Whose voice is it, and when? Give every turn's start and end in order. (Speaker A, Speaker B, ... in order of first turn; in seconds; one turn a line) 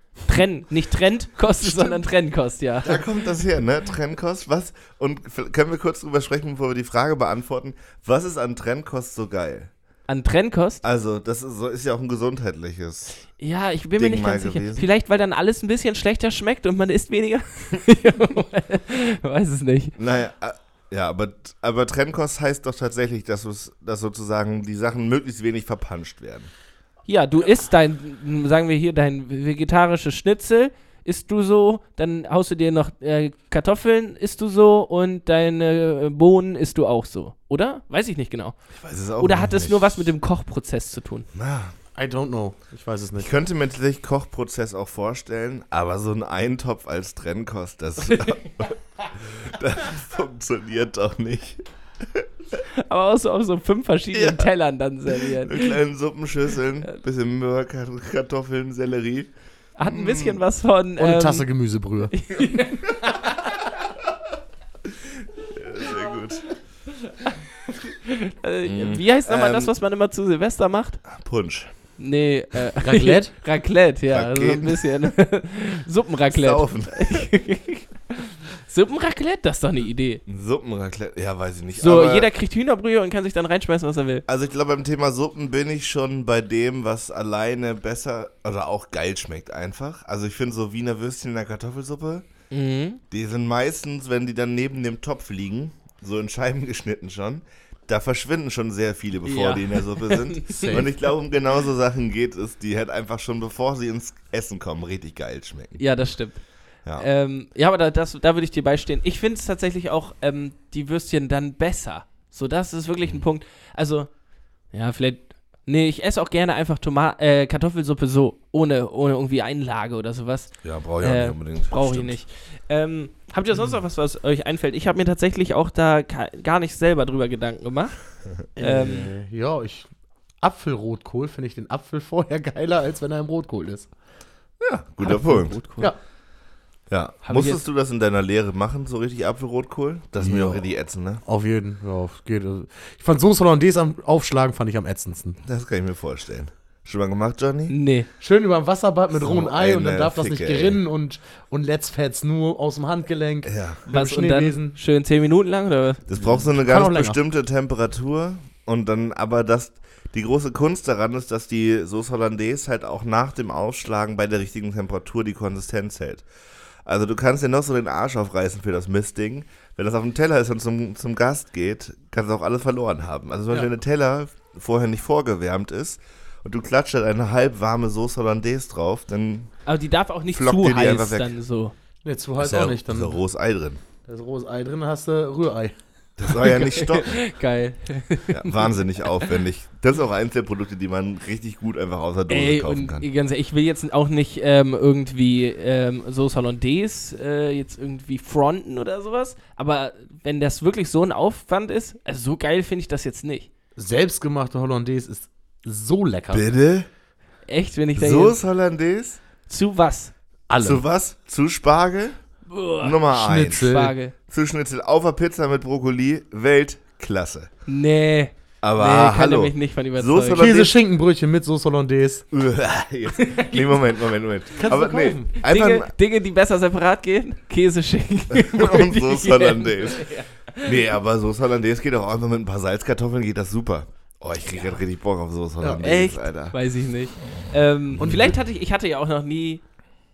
Speaker A: 0.2-3.0
Speaker B: 1.6-2.0
Speaker B: 2.8-9.7
Speaker A: 10.1-10.8
Speaker B: 10.8-13.2
Speaker A: 13.4-19.9
Speaker B: 14.0-14.9
Speaker B: 20.0-26.5
Speaker A: 27.1-38.6
Speaker B: 38.7-40.1
Speaker A: 39.1-41.3
Speaker B: 41.3-41.7
Speaker C: 42.0-43.3
Speaker B: 43.2-52.2
Speaker A: 48.1-48.4
Speaker A: 52.8-55.8
Speaker B: 54.1-54.5
Speaker B: 55.1-60.4
Speaker A: 59.8-61.5
Speaker C: 61.0-62.1
Speaker A: 62.1-63.2
Speaker B: 65.5-66.5
Speaker A: 67.9-71.1
Speaker B: 68.6-69.7
Speaker B: 71.1-71.7
Speaker A: 72.0-80.2
Speaker C: 72.8-73.3
Speaker B: 74.1-74.9
Speaker B: 76.3-77.3
Speaker B: 80.3-82.3
Speaker A: 81.8-84.2
Speaker B: 84.3-92.3
Speaker A: 92.5-93.0
Speaker B: 93.1-105.8
Speaker A: 99.2-100.9
Speaker C: 100.5-100.8
Speaker A: 105.8-114.1
Speaker A: 114.7-129.1
Speaker B: 120.6-122.2
Speaker C: 128.6-133.9
Speaker B: 134.6-135.6
Speaker A: 135.0-135.9
Speaker B: 136.9-141.2
Speaker C: 137.3-137.6
Speaker A: 137.3-137.5
Speaker C: 140.2-140.7
Speaker C: 141.2-145.4
Speaker B: 145.4-147.8
Speaker A: 147.7-148.1
Speaker C: 148.2-154.8
Speaker B: 149.1-150.8
Speaker B: 153.4-153.8
Speaker A: 153.9-156.0
Speaker B: 156.1-166.2
Speaker C: 156.1-157.2
Speaker B: 166.8-179.5
Speaker A: 179.7-181.7
Speaker B: 180.3-181.3
Speaker C: 182.0-183.2
Speaker B: 182.4-183.8
Speaker C: 184.0-185.8
Speaker B: 186.2-187.2
Speaker A: 186.4-188.7
Speaker B: 188.3-193.1
Speaker A: 192.3-203.5
Speaker C: 203.8-206.4
Speaker B: 206.3-206.9
Speaker A: 207.5-208.4
Speaker B: 207.9-209.2
Speaker A: 209.5-210.1
Speaker C: 210.5-210.8
Speaker B: 210.6-212.2
Speaker A: 212.5-214.1
Speaker B: 212.8-213.7
Speaker C: 213.1-213.9
Speaker B: 214.3-217.5
Speaker A: 217.7-220.5
Speaker B: 218.6-220.7
Speaker C: 220.3-222.2
Speaker B: 222.3-225.9
Speaker C: 224.6-225.3
Speaker A: 225.4-230.7
Speaker B: 228.3-236.5
Speaker A: 234.5-234.8
Speaker A: 235.8-239.6
Speaker B: 238.0-238.3
Speaker C: 238.0-238.3